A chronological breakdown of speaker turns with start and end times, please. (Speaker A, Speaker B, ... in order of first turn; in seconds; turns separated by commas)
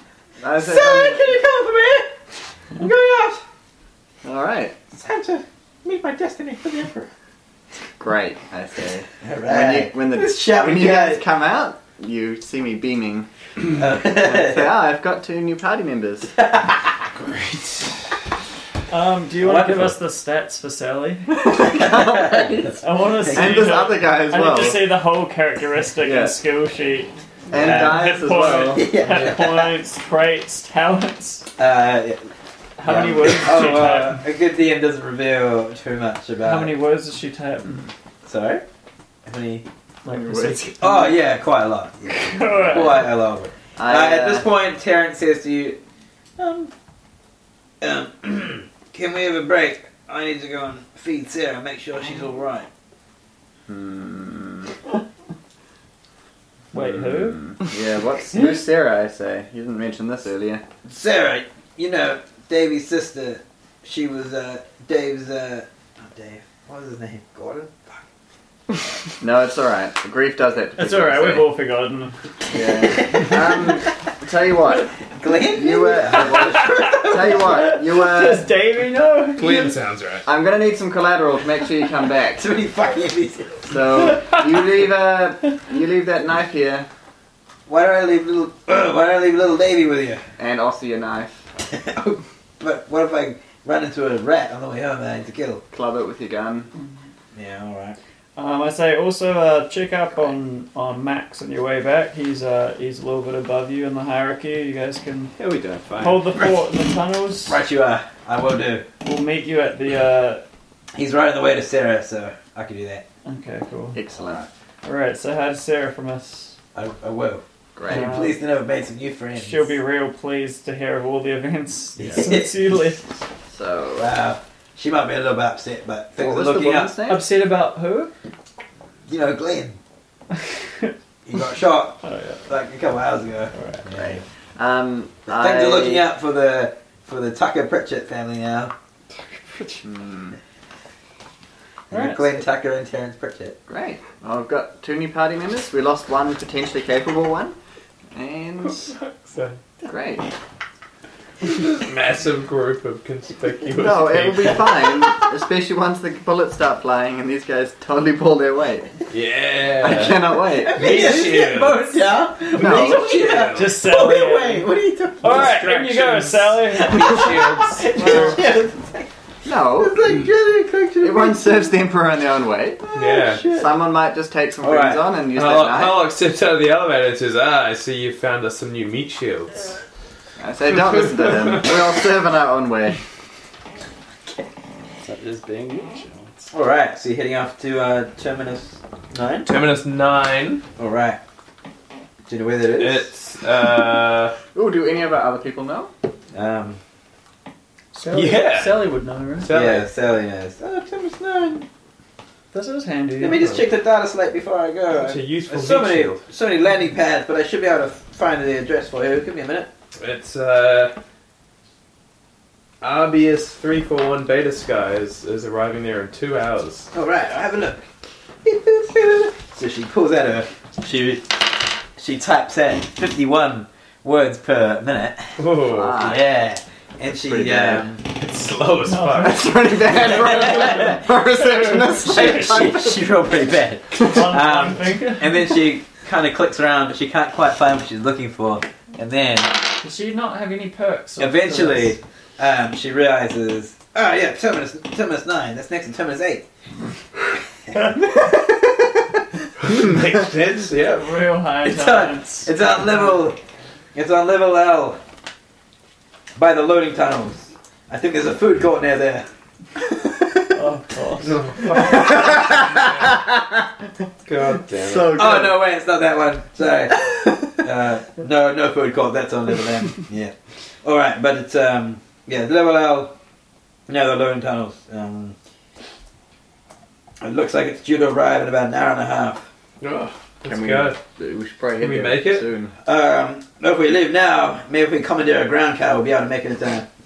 Speaker A: 0.4-1.4, Speaker B: 0.6-2.2, Speaker B: 2.7-3.4, Speaker A: 4.2-4.8, Speaker B: 4.9-7.1, Speaker A: 8.0-13.3, Speaker B: 9.2-11.2, Speaker B: 13.7-14.8, Speaker A: 14.0-16.4, Speaker B: 16.4-17.0, Speaker C: 18.9-21.4, Speaker B: 19.4-20.0, Speaker A: 21.4-24.9, Speaker B: 21.6-23.7, Speaker C: 22.8-31.5, Speaker A: 26.0-26.4, Speaker A: 27.5-28.9, Speaker B: 27.5-29.7, Speaker B: 31.6-32.3, Speaker C: 32.8-34.2, Speaker B: 32.8-36.7, Speaker C: 36.4-37.9, Speaker B: 38.2-38.6, Speaker B: 39.2-39.7, Speaker C: 40.0-41.1, Speaker A: 40.1-40.7, Speaker B: 40.8-45.8, Speaker C: 42.1-43.1, Speaker A: 43.8-44.5, Speaker B: 46.4-46.7, Speaker B: 47.8-52.7, Speaker A: 53.7-54.7, Speaker C: 56.7-57.4, Speaker A: 56.7-60.6, Speaker B: 60.8-68.0, Speaker A: 69.1-71.5, Speaker C: 70.8-72.2, Speaker A: 72.5-74.9, Speaker B: 73.0-73.4, Speaker B: 75.1-77.5, Speaker A: 75.5-78.5, Speaker C: 76.2-79.8, Speaker D: 79.4-80.2, Speaker A: 80.2-82.4, Speaker B: 82.3-83.7, Speaker A: 83.7-86.9, Speaker B: 87.7-90.2, Speaker A: 90.4-91.5, Speaker B: 91.6-95.6, Speaker A: 95.7-96.7, Speaker B: 97.3-98.0, Speaker C: 98.3-105.3, Speaker E: 105.4-106.1, Speaker C: 106.0-107.6, Speaker B: 107.5-108.9, Speaker C: 109.0-110.4, Speaker B: 110.9-113.0, Speaker C: 113.2-114.0, Speaker A: 113.9-114.4, Speaker B: 114.2-114.5, Speaker C: 114.8-116.6, Speaker B: 116.7-119.7, Speaker A: 117.8-118.1, Speaker C: 117.9-118.4, Speaker C: 119.3-123.0, Speaker B: 122.0-122.9, Speaker A: 123.5-124.1, Speaker B: 124.0-126.9, Speaker A: 126.2-127.3, Speaker C: 127.1-128.1, Speaker B: 129.1-129.8, Speaker B: 131.2-134.2, Speaker C: 132.0-132.4, Speaker C: 133.5-133.8, Speaker A: 133.9-136.1, Speaker B: 135.3-138.7, Speaker C: 139.5-139.8, Speaker A: 139.8-140.4, Speaker B: 141.9-143.6, Speaker C: 141.9-142.4, Speaker A: 143.7-147.5, Speaker A: 148.1-148.9, Speaker D: 149.3-149.6, Speaker A: 149.9-150.3, Speaker D: 151.5-155.0, Speaker A: 153.8-158.9, Speaker D: 159.1-162.0, Speaker A: 159.8-160.8, Speaker B: 160.6-165.5, Speaker A: 162.6-163.1, Speaker D: 162.6-163.8, Speaker C: 163.5-164.7, Speaker C: 165.2-168.4, Speaker D: 165.2-168.4, Speaker B: 166.8-169.1, Speaker A: 169.4-170.1, Speaker B: 169.7-171.7, Speaker A: 171.0-172.9, Speaker D: 172.9-173.5, Speaker B: 172.9-173.7, Speaker A: 173.5-176.1, Speaker B: 174.6-175.1, Speaker D: 175.3-179.8, Speaker A: 180.4-183.0, Speaker E: 185.0-186.5, Speaker B: 186.5-189.5, Speaker D: 189.4-190.6, Speaker B: 190.8-191.2, Speaker B: 192.3-193.1, Speaker D: 192.8-194.3, Speaker A: 194.5-195.9, Speaker B: 196.3-196.8, Speaker C: 197.9-199.5, Speaker D: 198.1-199.9, Speaker B: 199.5-201.7, Speaker C: 202.5-203.6, Speaker B: 203.2-209.7, Speaker D: 203.3-203.6, Speaker D: 204.9-206.2, Speaker D: 210.0-210.9, Speaker D: 212.8-216.9, Speaker B: 216.9-217.8, Speaker B: 218.4-228.0, Speaker D: 225.4-226.1, Speaker A: 225.7-226.3, Speaker A: 227.1-227.9, Speaker D: 228.1-229.7, Speaker C: 228.8-229.5, Speaker A: 229.2-233.2, Speaker B: 230.1-230.9, Speaker C: 230.2-232.7, Speaker B: 232.0-239.6, Speaker C: 234.0-235.5, Speaker C: 239.8-242.0, Speaker B: 241.2-246.4, Speaker B: 247.7-249.2, Speaker D: 249.6-251.1, Speaker C: 250.8-253.2, Speaker B: 251.6-253.4, Speaker B: 253.9-255.0, Speaker B: 256.4-260.2, Speaker C: 260.5-261.7, Speaker D: 261.2-263.1, Speaker A: 261.8-263.6, Speaker B: 264.3-273.1, Speaker D: 264.4-265.2, Speaker A: 264.7-265.6, Speaker B: 273.9-275.4, Speaker B: 277.2-279.5, Speaker D: 279.8-281.0, Speaker A: 280.4-282.7, Speaker D: 281.8-282.4, Speaker B: 282.9-286.9